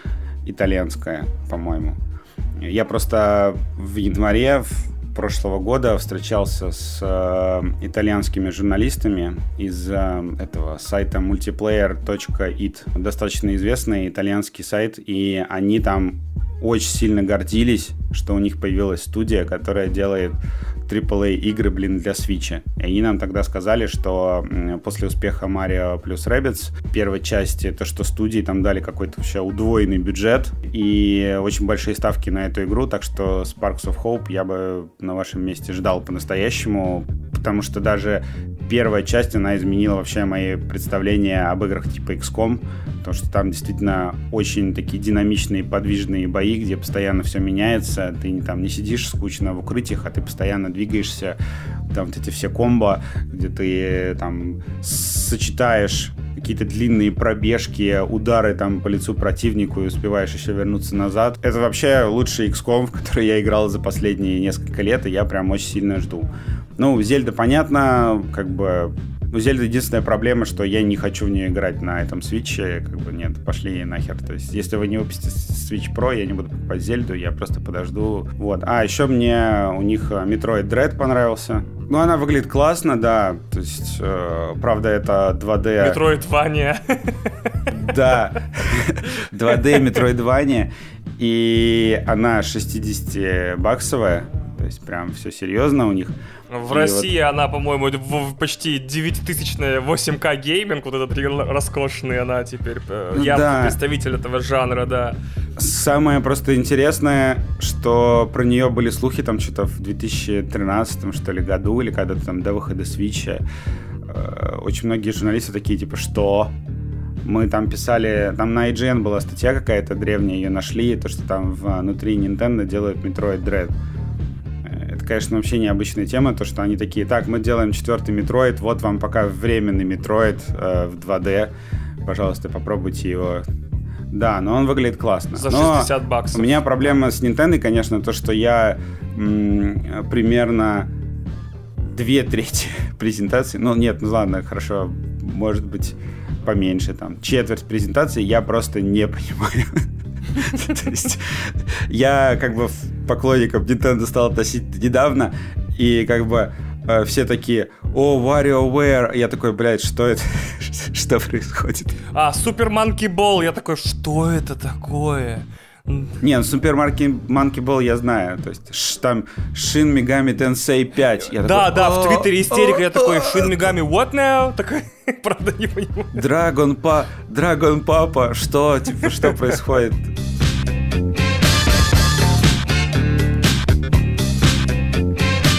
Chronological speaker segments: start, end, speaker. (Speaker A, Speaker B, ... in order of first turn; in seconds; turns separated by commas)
Speaker A: 0.4-2.0, Speaker A: 2.6-51.4, Speaker A: 51.9-86.0, Speaker B: 85.8-87.7, Speaker A: 87.7-96.2, Speaker B: 89.0-89.8, Speaker B: 96.5-105.2, Speaker A: 96.7-97.1, Speaker A: 103.1-103.8, Speaker A: 105.6-113.4, Speaker A: 114.0-116.5, Speaker A: 117.2-123.7, Speaker A: 124.6-131.5, Speaker A: 132.0-133.4, Speaker A: 134.1-140.9, Speaker B: 135.3-136.7, Speaker A: 141.9-162.0, Speaker B: 162.1-166.2, Speaker A: 166.2-173.6, Speaker B: 171.3-176.2, Speaker A: 176.1-180.1, Speaker B: 179.1-179.5